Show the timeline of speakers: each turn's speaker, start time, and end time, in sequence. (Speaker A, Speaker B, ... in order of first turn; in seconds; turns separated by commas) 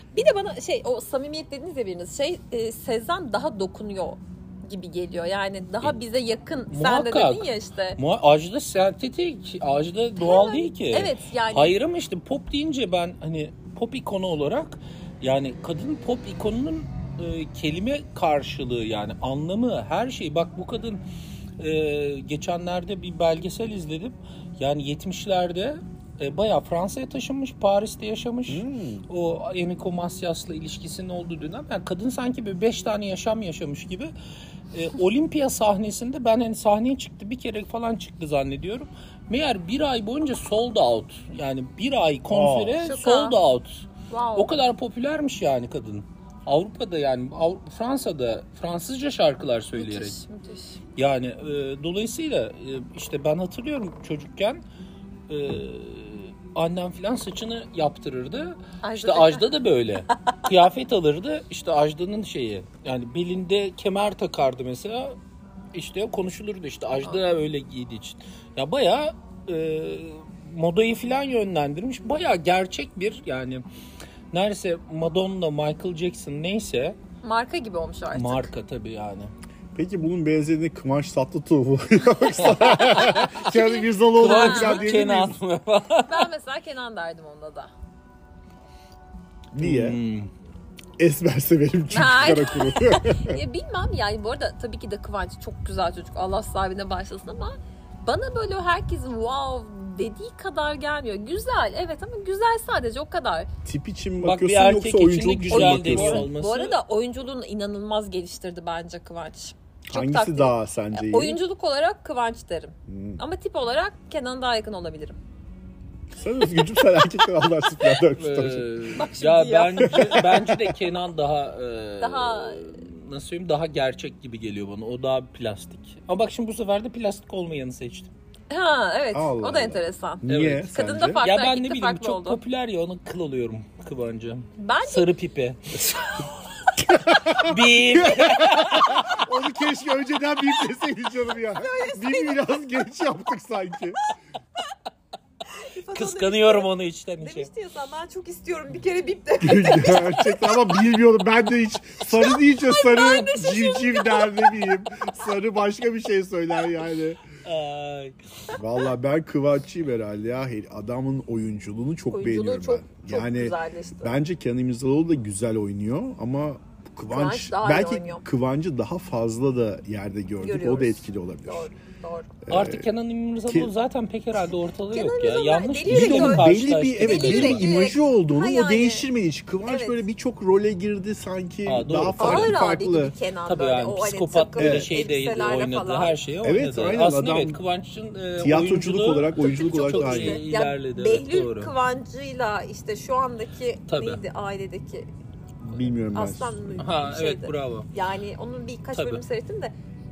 Speaker A: 0.1-8.0, Speaker B: 6.7-21.0, Speaker A: 10.2-11.8, Speaker B: 21.6-34.1, Speaker C: 28.5-29.0, Speaker B: 34.7-50.2, Speaker C: 42.3-42.8, Speaker A: 42.8-43.4, Speaker A: 44.1-44.5, Speaker A: 49.8-50.8, Speaker B: 51.0-54.6, Speaker B: 55.3-65.2, Speaker A: 58.8-59.5, Speaker B: 65.7-73.6, Speaker B: 74.3-77.0, Speaker A: 77.2-78.5, Speaker B: 78.1-79.3, Speaker C: 79.7-85.4, Speaker B: 82.3-83.4, Speaker A: 83.3-84.9, Speaker B: 84.1-86.3, Speaker A: 86.1-87.7, Speaker C: 89.5-90.0, Speaker B: 89.6-90.3, Speaker C: 91.0-93.4, Speaker A: 91.9-103.5, Speaker C: 103.6-106.3, Speaker B: 104.2-106.8, Speaker A: 105.5-115.2, Speaker C: 109.9-111.4, Speaker C: 112.9-113.2, Speaker C: 116.1-118.9, Speaker B: 118.0-128.1, Speaker A: 119.0-120.2, Speaker C: 119.8-120.2, Speaker A: 122.0-122.8, Speaker A: 128.5-132.4, Speaker C: 129.1-131.2, Speaker B: 130.2-135.6, Speaker A: 134.6-135.1, Speaker C: 136.9-144.0, Speaker B: 137.2-139.2, Speaker A: 141.6-142.5, Speaker A: 145.5-146.7, Speaker B: 145.9-147.5, Speaker A: 147.2-150.8, Speaker C: 149.4-157.2, Speaker A: 152.0-154.6, Speaker B: 157.4-158.5, Speaker C: 158.5-171.7, Speaker A: 162.1-164.2, Speaker A: 167.1-168.2, Speaker A: 170.4-172.3, Speaker C: 172.4-172.8, Speaker B: 172.5-177.7, Speaker A: 174.9-179.1, Speaker C: 175.9-183.2, Speaker A: 179.7-180.0, Speaker B: 181.7-182.6, Speaker A: 182.2-186.1, Speaker B: 183.4-191.7, Speaker C: 184.6-184.9, Speaker C: 186.4-187.6, Speaker C: 188.4-190.4, Speaker A: 189.4-195.1, Speaker B: 193.9-194.2, Speaker C: 195.6-196.7, Speaker A: 196.1-199.7, Speaker B: 196.8-197.9, Speaker B: 198.9-199.2